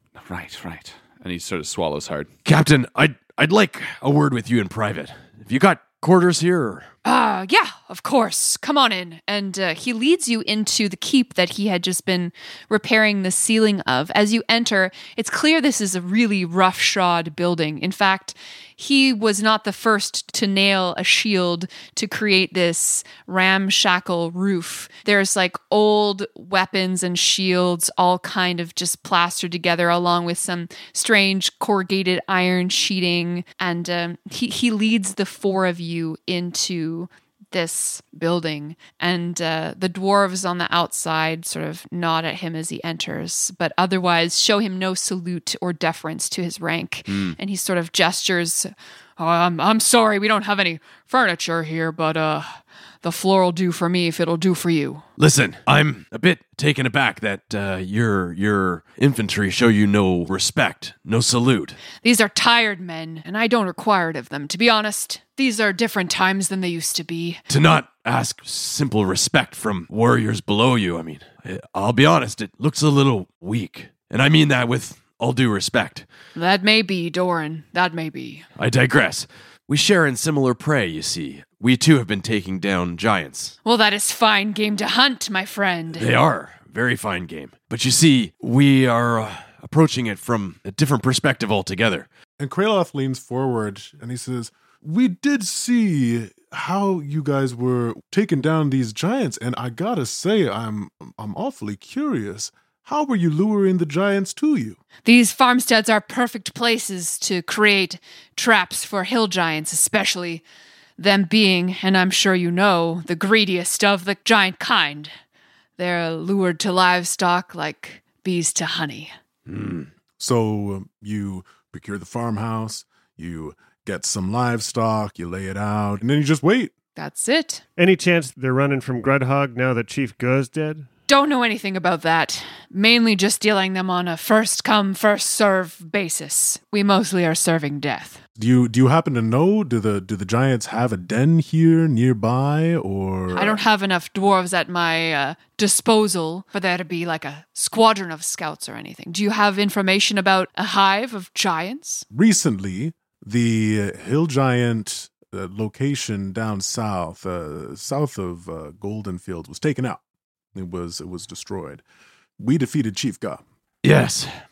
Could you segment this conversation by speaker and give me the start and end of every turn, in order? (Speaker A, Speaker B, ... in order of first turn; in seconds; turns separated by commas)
Speaker A: 0.1-2.3, Speaker B: 2.4-6.9, Speaker C: 7.0-55.0, Speaker B: 47.1-47.4, Speaker B: 55.2-61.8, Speaker C: 62.0-67.4, Speaker B: 67.5-76.1, Speaker C: 76.3-78.5, Speaker B: 78.6-83.5, Speaker C: 83.6-86.1, Speaker B: 85.9-92.1, Speaker D: 92.4-104.8, Speaker C: 105.0-110.4, Speaker C: 111.0-115.1, Speaker C: 115.8-119.1, Speaker B: 119.5-119.9, Speaker D: 120.2-126.7, Speaker C: 127.0-127.6, Speaker E: 127.8-130.9, Speaker C: 131.1-138.2, Speaker D: 138.4-143.6, Speaker C: 143.3-152.1, Speaker D: 152.1-160.0, Speaker D: 160.5-161.8, Speaker D: 162.4-163.4, Speaker B: 163.8-164.3